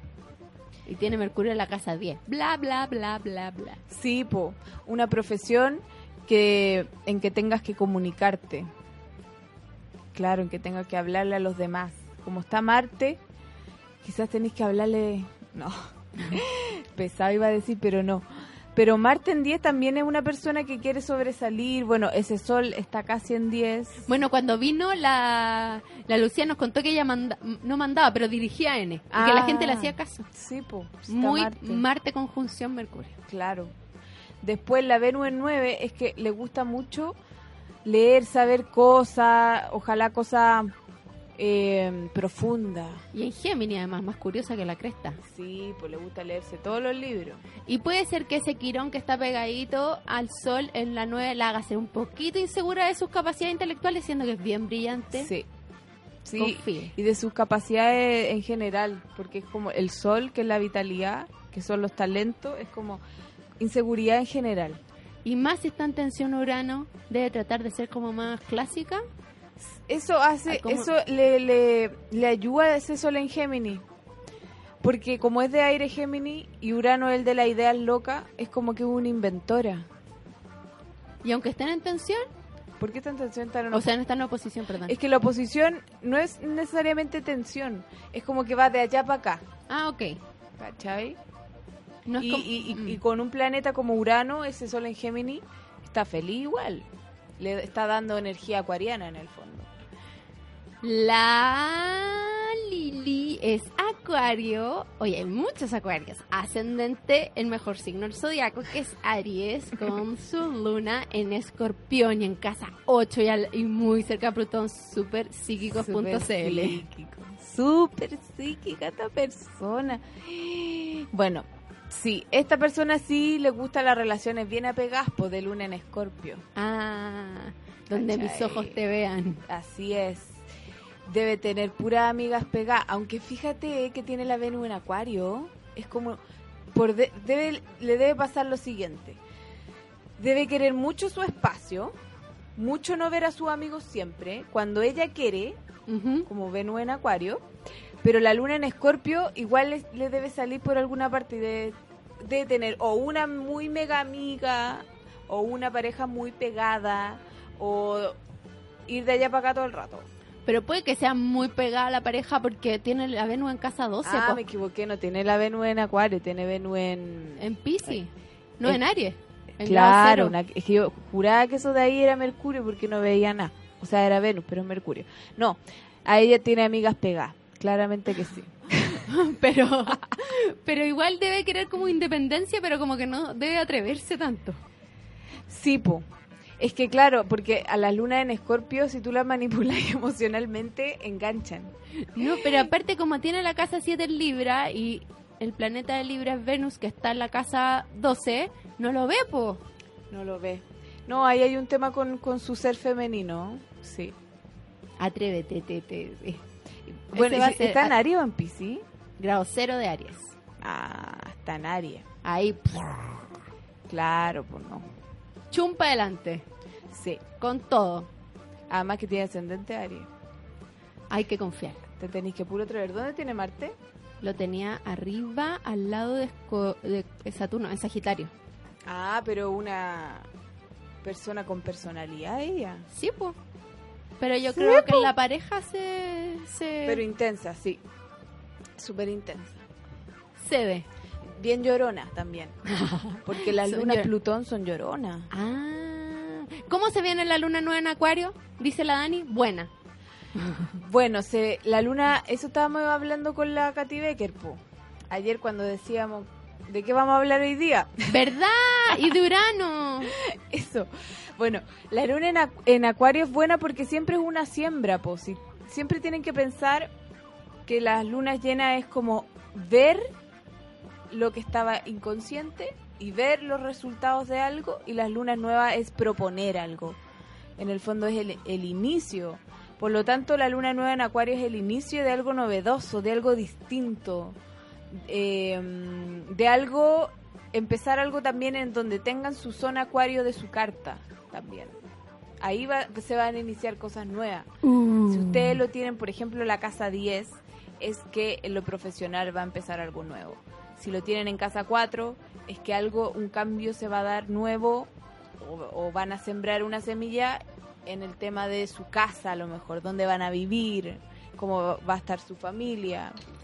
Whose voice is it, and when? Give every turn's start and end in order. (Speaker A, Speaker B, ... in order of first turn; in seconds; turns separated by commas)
Speaker A: 0.9-3.8, Speaker B: 3.9-8.7, Speaker B: 10.1-13.2, Speaker B: 14.0-24.1, Speaker A: 24.1-30.3, Speaker B: 29.1-31.8, Speaker A: 31.1-33.2, Speaker B: 33.3-33.7, Speaker B: 34.4-37.2, Speaker B: 37.9-40.7, Speaker B: 41.4-43.1, Speaker A: 43.1-45.2, Speaker B: 45.2-47.4, Speaker A: 47.7-55.3, Speaker B: 55.1-55.5, Speaker B: 56.2-63.0, Speaker A: 56.4-56.9, Speaker B: 63.6-64.8, Speaker A: 65.2-69.0, Speaker B: 69.6-73.8, Speaker A: 70.5-70.9, Speaker B: 74.8-79.9, Speaker A: 81.2-82.3, Speaker B: 82.8-83.9, Speaker A: 83.7-85.0, Speaker B: 84.8-89.5, Speaker A: 89.7-90.2, Speaker B: 90.6-91.2, Speaker A: 92.1-93.0, Speaker B: 92.2-96.9, Speaker B: 97.4-99.7, Speaker A: 100.8-116.8, Speaker B: 115.7-126.5, Speaker A: 126.6-129.4, Speaker B: 127.9-128.8, Speaker B: 129.5-130.4, Speaker B: 131.1-136.2, Speaker B: 136.7-139.2, Speaker B: 140.2-141.9, Speaker B: 142.6-145.6, Speaker A: 145.9-146.3, Speaker B: 146.3-147.5, Speaker B: 148.0-158.2, Speaker B: 158.9-160.1, Speaker A: 160.5-164.4, Speaker B: 164.0-167.5, Speaker A: 167.4-170.4, Speaker B: 169.6-179.1, Speaker A: 179.0-184.6, Speaker B: 185.5-186.1, Speaker B: 186.6-192.6, Speaker A: 192.1-199.6, Speaker B: 200.1-204.2, Speaker A: 205.0-206.4, Speaker A: 207.1-208.0, Speaker B: 207.1-208.8, Speaker A: 209.2-210.3, Speaker B: 210.6-212.1, Speaker A: 212.2-213.2, Speaker B: 213.9-214.9, Speaker A: 215.5-216.5, Speaker B: 216.9-217.2, Speaker A: 217.4-218.1, Speaker B: 218.7-220.1, Speaker A: 221.1-221.8, Speaker B: 222.0-223.8, Speaker A: 224.2-228.3, Speaker B: 228.9-230.3, Speaker B: 231.0-232.9, Speaker A: 232.9-233.4, Speaker A: 234.2-237.0, Speaker B: 234.5-235.1, Speaker B: 236.8-237.8, Speaker B: 238.8-239.7, Speaker A: 240.4-240.9, Speaker B: 241.3-242.6, Speaker A: 242.7-244.1, Speaker B: 243.2-245.3, Speaker A: 245.3-249.7, Speaker B: 250.7-258.1, Speaker A: 258.1-260.2, Speaker B: 260.1-266.9, Speaker B: 267.7-270.1, Speaker B: 271.1-277.0, Speaker B: 277.6-284.4, Speaker B: 284.9-291.7, Speaker B: 292.4-313.2, Speaker A: 294.6-295.6